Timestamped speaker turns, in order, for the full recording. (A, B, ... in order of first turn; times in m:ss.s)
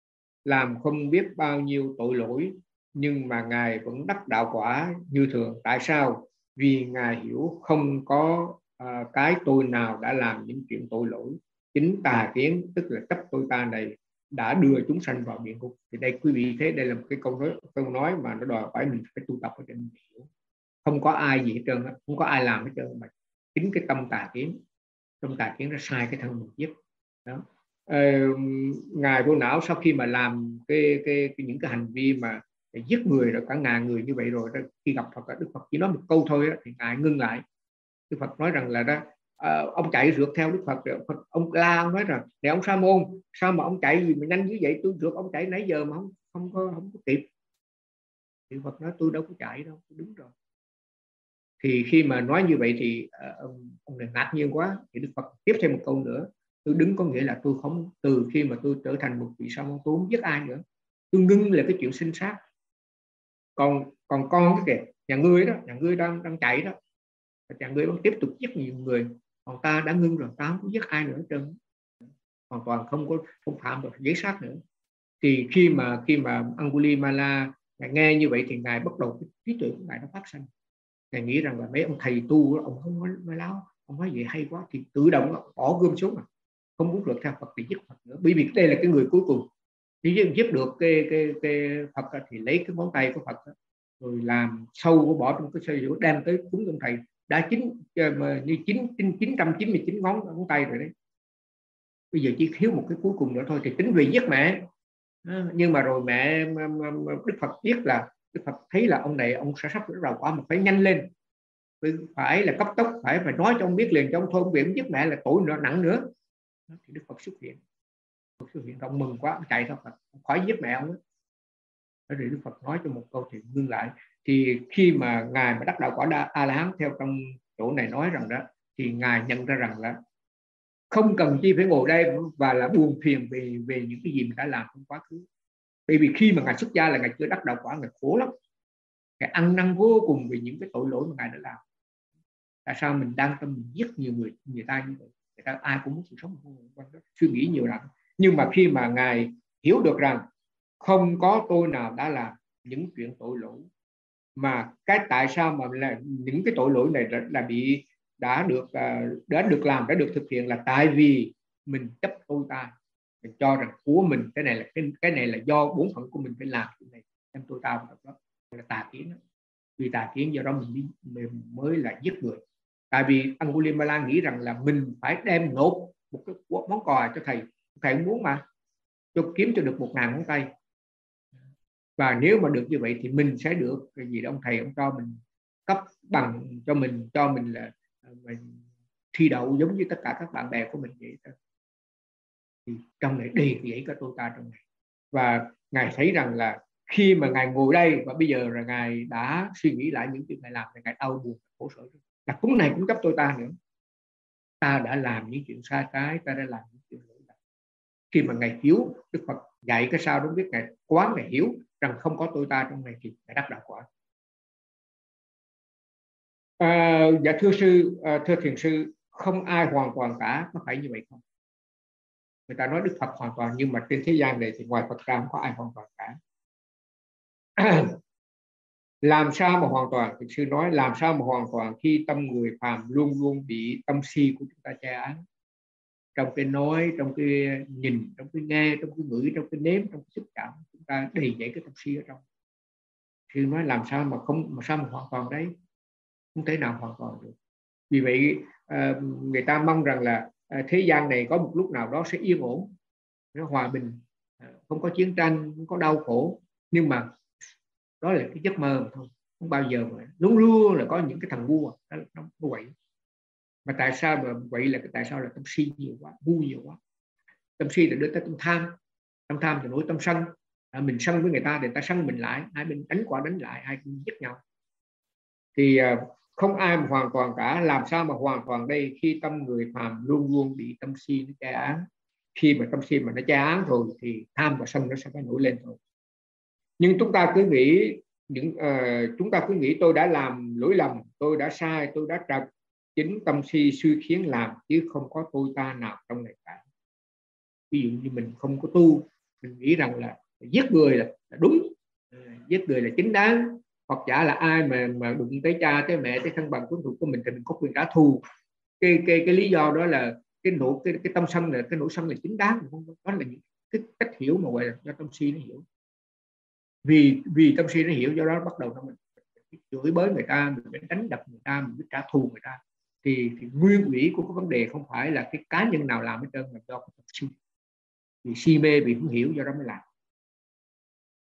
0:00.4-0:20.3 A
0:20.8-0:24.6 A
0:25.2-0:26.7 A
0:27.2-0:37.4 A
0:38.1-0:47.3 A
0:48.5-0:50.3 A
0:51.6-1:02.4 A
1:03.6-1:06.7 A
1:07.5-1:11.6 A
1:12.5-1:14.6 A
1:15.2-1:20.5 A
1:21.1-1:26.2 A
1:26.8-1:29.5 A
1:30.0-1:40.9 A
1:42.1-1:44.7 A
1:45.2-1:51.1 A
1:51.8-1:56.1 A
1:56.7-1:57.6 A
1:58.4-2:01.0 A
2:02.1-2:10.0 A
2:10.9-2:15.2 A
2:15.9-2:18.3 A
2:19.2-2:21.6 A
2:22.6-2:30.2 A
2:30.8-2:33.7 A
2:34.4-2:49.2 A
2:49.8-2:58.4 A
2:59.1-3:00.5 A
3:02.0-3:11.3 A
3:12.7-3:23.5 A
3:24.6-3:27.3 A
3:28.1-3:33.8 A
3:36.6-3:41.2 A
3:42.5-3:46.2 A
3:47.6-3:48.0 A
3:49.0-3:55.2 A
3:56.2-4:02.2 A
4:03.3-4:05.5 A
4:06.3-4:07.3 A
4:07.9-4:12.7 A
4:13.3-4:17.1 A
4:18.0-4:22.7 A
4:23.6-4:26.8 A
4:27.6-4:28.8 A
4:29.3-4:34.4 A
4:35.6-4:41.8 A
4:42.3-4:45.8 A
4:46.8-4:56.6 A
4:57.7-5:08.2 A
5:08.8-5:15.6 A
5:16.8-5:27.3 A
5:28.2-5:29.8 A